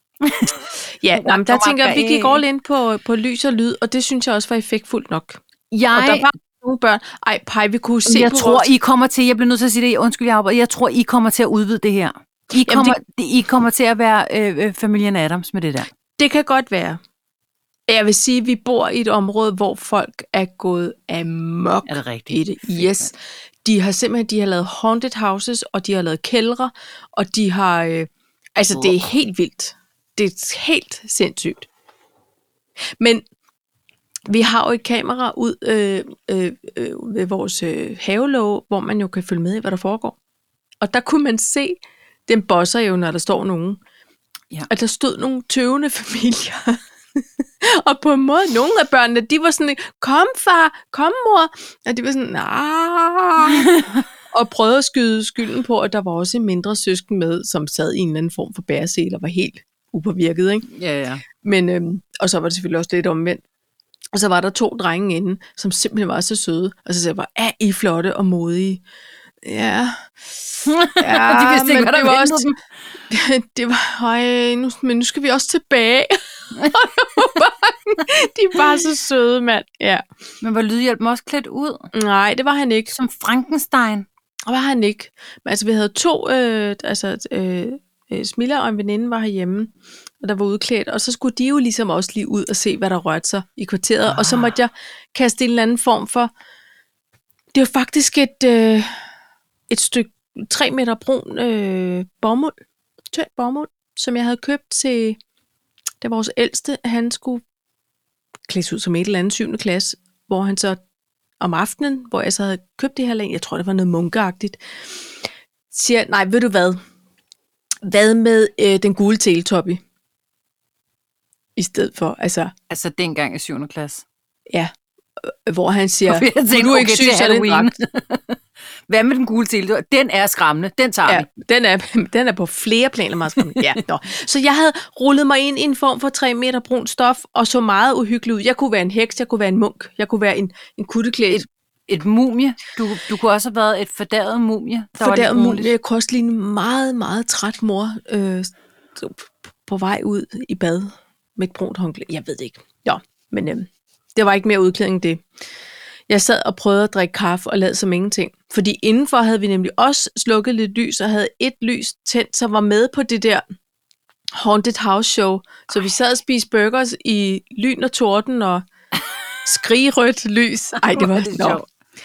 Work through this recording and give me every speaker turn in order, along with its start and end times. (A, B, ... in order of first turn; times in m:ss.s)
0:00.2-0:02.4 A
0:00.8-0:05.4 B
0:05.7-0:06.3 A
0:05.9-0:08.7 B
0:08.0-0:15.9 A
0:12.5-0:13.0 B
0:16.2-0:17.0 B
0:17.9-0:31.7 B
0:21.8-0:23.1 A
0:28.7-0:29.0 A
0:34.3-0:40.2 B
0:40.8-0:43.8 B
0:44.7-0:46.8 B
0:47.6-1:00.6 B
0:53.5-0:54.0 A
1:00.7-1:01.2 A
1:01.4-1:03.4 B
1:04.1-1:08.8 B
1:09.4-1:10.1 B
1:10.6-1:12.5 A
1:11.0-1:12.5 B
1:13.1-1:20.0 B
1:16.6-1:17.2 A
1:20.4-1:21.9 A
1:21.9-1:22.9 B
1:22.9-1:24.1 A
1:24.5-1:36.3 B
1:34.1-1:34.5 A
1:37.5-1:39.0 B
1:39.7-1:42.6 B
1:43.1-1:45.2 B
1:46.0-1:47.4 B
1:48.5-1:50.8 B
1:51.4-1:54.6 B
1:55.7-1:56.8 B
1:57.8-1:59.8 B
2:01.6-2:02.5 B
2:02.7-2:04.0 A
2:05.2-2:07.7 B
2:06.1-2:11.3 A
2:11.0-2:21.4 B
2:21.3-2:25.7 A
2:25.0-2:35.2 B
2:36.1-2:43.4 B
2:44.4-2:48.6 B
2:49.4-2:51.6 B
2:50.8-2:51.6 A